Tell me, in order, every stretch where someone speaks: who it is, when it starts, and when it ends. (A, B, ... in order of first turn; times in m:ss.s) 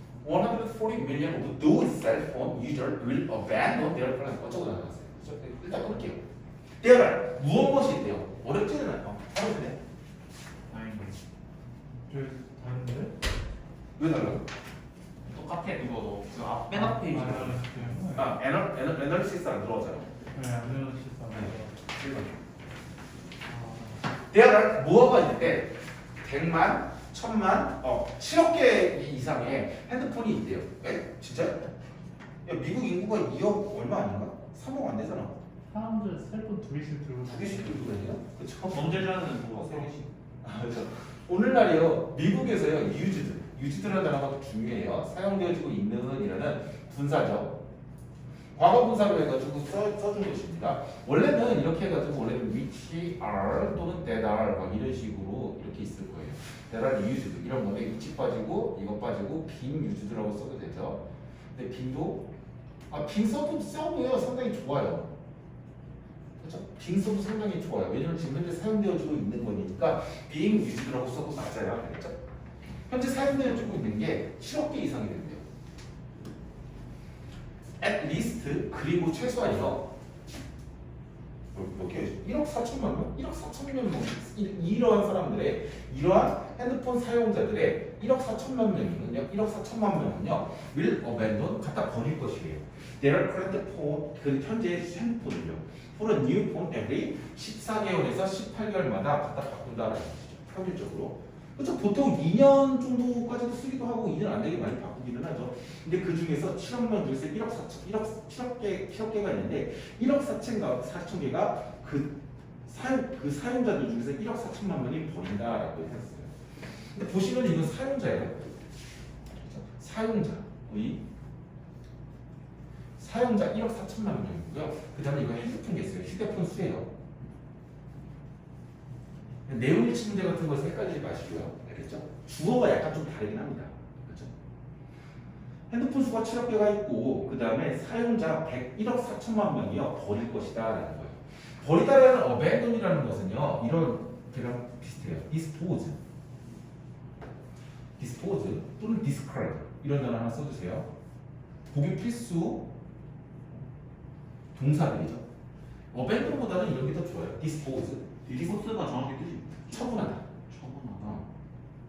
0:00.2-0:06.2 A
0:06.8-0:09.8 A
0:10.7-0:11.2 B
0:12.1-0:13.1 C
0:14.0-0:14.4 A
0:15.2-0:17.9 B
0:16.7-0:18.3 C
0:18.1-0:20.1 A
0:20.3-0:21.7 C
0:21.3-0:22.3 A
0:24.3-0:31.7 A
0:32.4-0:35.4 A
0:35.7-0:37.9 C
0:37.2-0:47.6 A
0:38.7-0:40.1 B
0:48.6-1:01.0 A
1:01.5-1:02.3 A
1:02.9-1:05.1 A
1:06.4-1:12.2 A
1:12.9-1:15.4 A
1:17.8-1:19.9 A
1:21.5-1:56.3 A
1:56.9-1:58.5 A
1:59.4-2:01.0 A
2:03.0-2:06.9 A
2:09.5-2:14.3 A
2:15.7-2:26.0 A
2:28.0-2:30.9 A
2:31.7-2:32.7 A
2:34.6-2:35.2 A
2:35.9-2:38.1 A
2:38.2-2:39.9 B
2:39.7-2:40.3 A
2:40.5-2:41.2 B